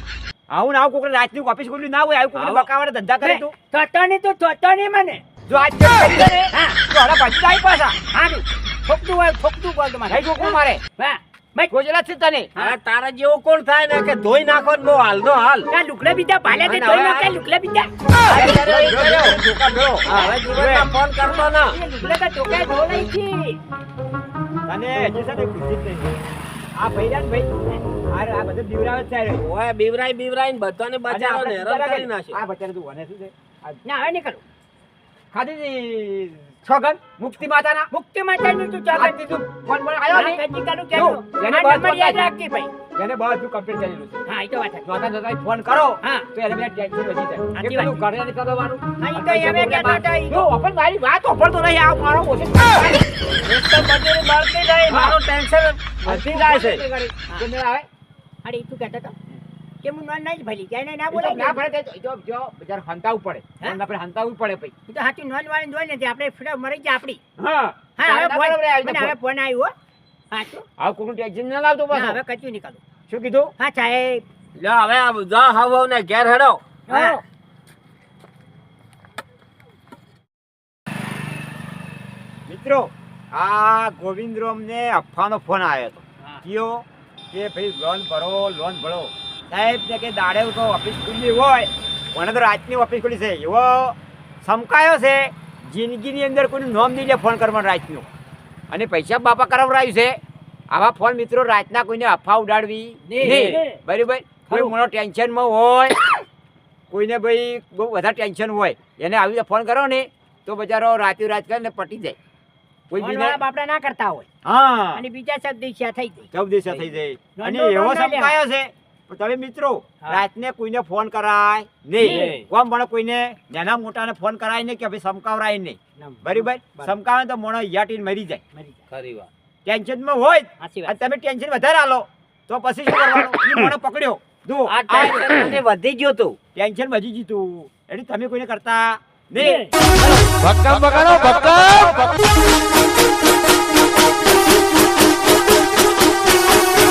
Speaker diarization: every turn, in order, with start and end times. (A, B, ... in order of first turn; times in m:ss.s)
0:00.5-0:03.5 A
0:02.3-0:02.7 B
0:03.2-0:05.2 C
0:05.4-0:08.0 A
0:06.5-0:06.8 C
0:08.1-0:11.7 C
0:10.1-0:10.8 A
0:11.7-0:12.5 A
0:12.6-0:15.7 B
0:15.7-0:19.0 C
0:16.6-0:17.3 B
0:18.2-0:19.4 B
0:18.3-0:20.9 A
0:20.0-0:21.8 B
0:20.1-0:20.4 C
0:21.2-0:23.6 C
0:24.6-0:26.2 A
0:26.7-0:27.5 A
0:28.1-0:29.4 A
0:29.4-0:32.4 B
0:31.1-0:33.8 A
0:33.8-0:34.4 C
0:35.3-0:37.9 A
0:37.9-0:39.2 C
0:38.9-0:42.3 A
0:40.1-0:42.7 C
0:42.9-0:44.2 A
0:44.2-0:44.8 C
0:44.8-0:53.0 A
0:46.0-0:46.3 C
0:47.5-0:48.0 C
0:49.0-0:50.4 C
0:53.4-0:56.8 B
0:54.9-0:55.2 A
0:56.0-0:57.9 A
0:58.4-0:59.1 C
0:59.8-1:01.6 C
1:01.1-1:04.7 A
1:04.9-1:07.2 C
1:07.4-1:09.1 A
1:08.0-1:09.7 C
1:10.3-1:10.6 C
1:10.8-1:12.2 A
1:11.9-1:12.8 C
1:13.1-1:13.5 A
1:13.6-1:14.2 C
1:14.6-1:16.6 B
1:16.9-1:17.2 C
1:16.9-1:17.2 A
1:22.5-1:38.1 A
1:38.7-1:40.2 A
1:40.7-1:46.0 A
1:43.1-1:43.6 C
1:43.2-1:43.6 B
1:46.9-1:52.2 A
1:52.9-1:53.4 A
1:53.0-1:54.3 C
1:54.4-1:55.0 A
1:54.9-1:58.4 C
1:56.3-2:08.4 A
2:02.0-2:02.4 B
2:02.0-2:02.3 C
2:06.0-2:07.0 C
2:08.5-2:08.8 C
2:08.9-2:09.3 B
2:09.6-2:15.2 A
2:10.6-2:11.0 C
2:14.7-2:16.4 B
2:16.5-2:19.8 A
2:20.4-2:22.1 A